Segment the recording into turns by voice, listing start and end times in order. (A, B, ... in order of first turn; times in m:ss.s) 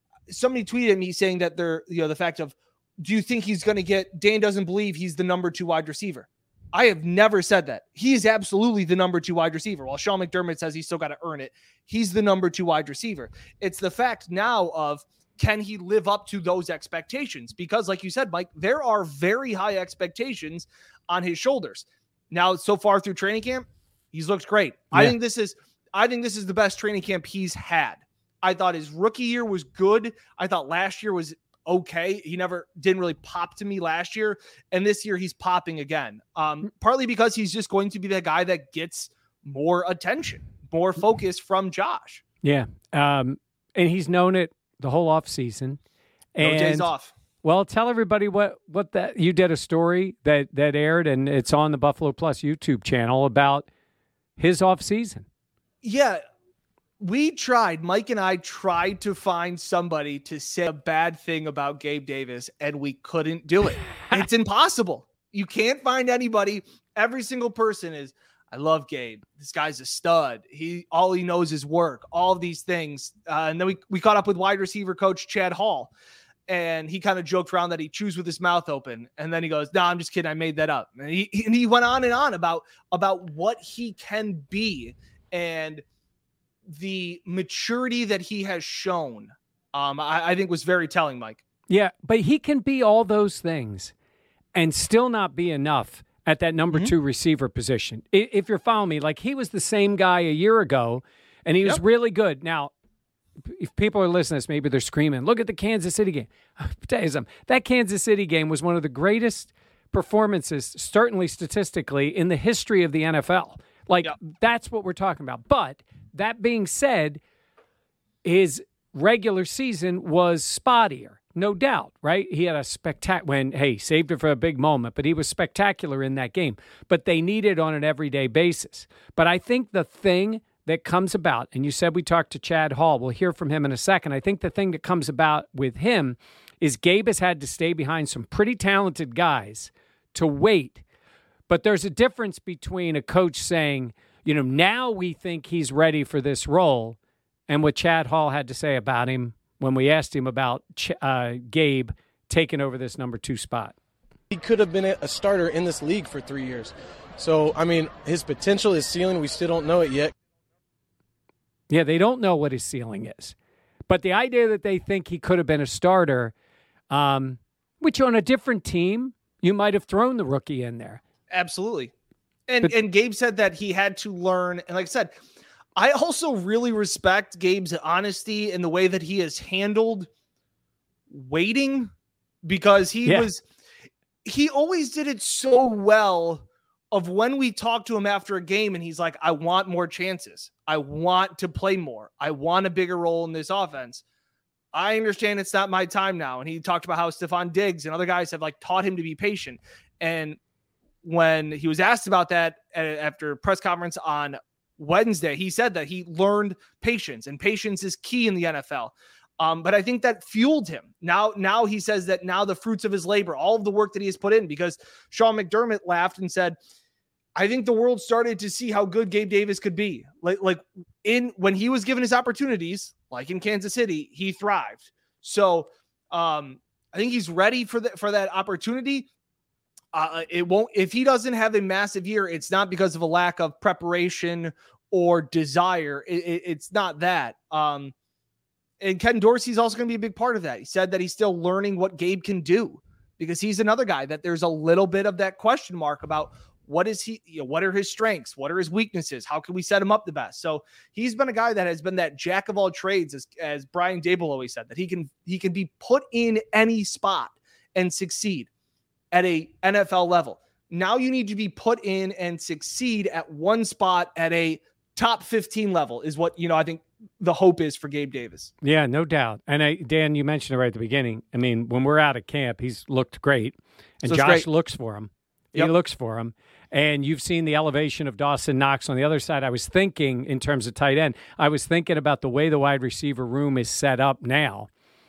0:00.3-0:42.2 A
0:42.4-0:45.8 B
0:46.3-0:46.9 B
0:46.4-0:47.1 A
0:47.4-0:53.7 B
0:54.4-0:55.2 B
0:55.8-0:56.2 A
0:57.0-1:15.9 A
1:16.5-1:25.8 A
1:26.6-1:31.4 A
1:31.7-1:33.9 B
1:34.5-1:42.7 B
1:43.4-1:57.2 B
1:58.2-2:20.8 B
2:21.5-2:27.0 B
2:27.5-2:33.7 B
2:34.3-2:40.1 C
2:41.7-2:43.3 B
2:43.9-2:46.3 B
2:46.9-2:51.0 B
2:51.3-2:51.9 A
2:52.5-2:55.1 A
2:55.8-3:00.1 A
3:01.1-3:01.9 A
3:02.4-3:03.4 A
3:04.2-3:14.0 A
3:14.7-3:20.4 A
3:21.0-3:36.6 A
3:37.4-3:49.1 A
3:49.9-3:57.9 A
3:58.8-4:18.5 A
4:19.1-4:28.5 A
4:28.6-4:44.7 B
4:34.0-4:34.4 A